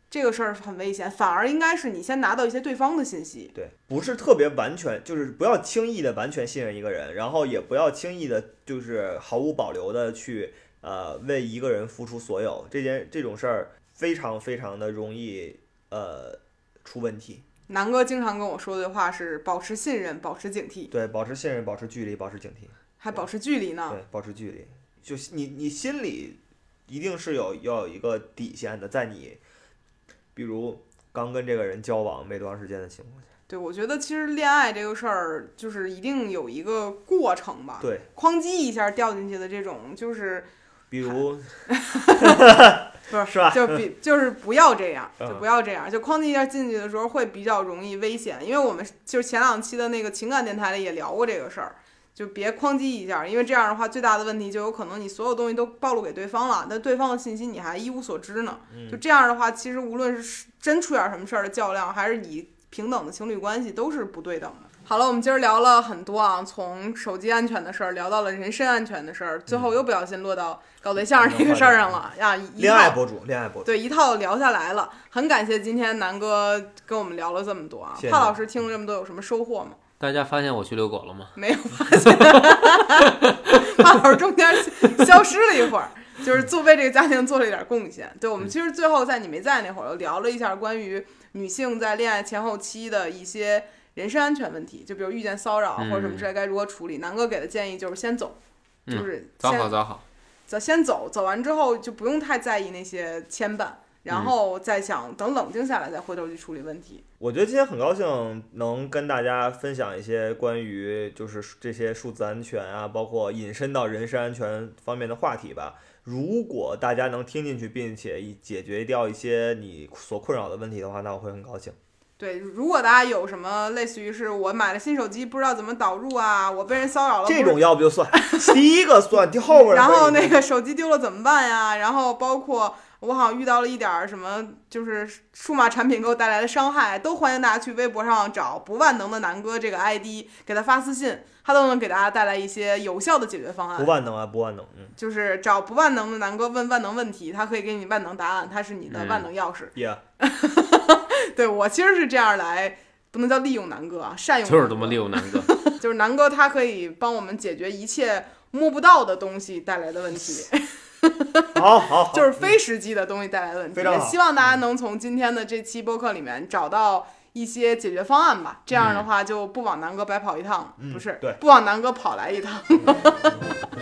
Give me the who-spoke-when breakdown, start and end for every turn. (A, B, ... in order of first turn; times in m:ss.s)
0:00.1-0:03.5 A
0:03.5-0:17.4 B
0:17.7-0:20.9 A
0:20.9-0:23.2 B
0:23.0-0:24.0 A
0:23.9-0:29.4 B
0:30.4-0:33.2 B
0:33.5-0:40.5 A
0:37.8-0:38.1 B
0:40.9-0:41.6 B
0:41.7-0:42.5 A
0:42.1-0:43.8 B
0:43.1-1:13.0 A
0:58.7-0:59.0 B
1:11.2-1:12.0 B
1:12.6-1:13.7 B
1:13.6-1:19.8 A
1:18.0-1:18.4 B
1:20.0-1:21.3 C
1:21.4-1:38.4 A
1:21.9-1:23.8 C
1:35.8-1:36.3 C
1:38.9-1:40.0 C
1:38.9-1:39.8 A
1:40.5-1:47.0 A
1:47.2-2:01.8 B
2:02.2-2:08.6 A
2:07.2-2:10.4 B
2:09.5-2:23.9 A
2:23.8-2:24.9 B
2:25.0-2:53.4 A
2:28.9-2:29.3 C
2:29.7-2:30.0 B
2:34.4-2:35.5 C
2:41.5-2:42.5 B
2:43.7-2:44.2 B
2:50.8-2:51.4 B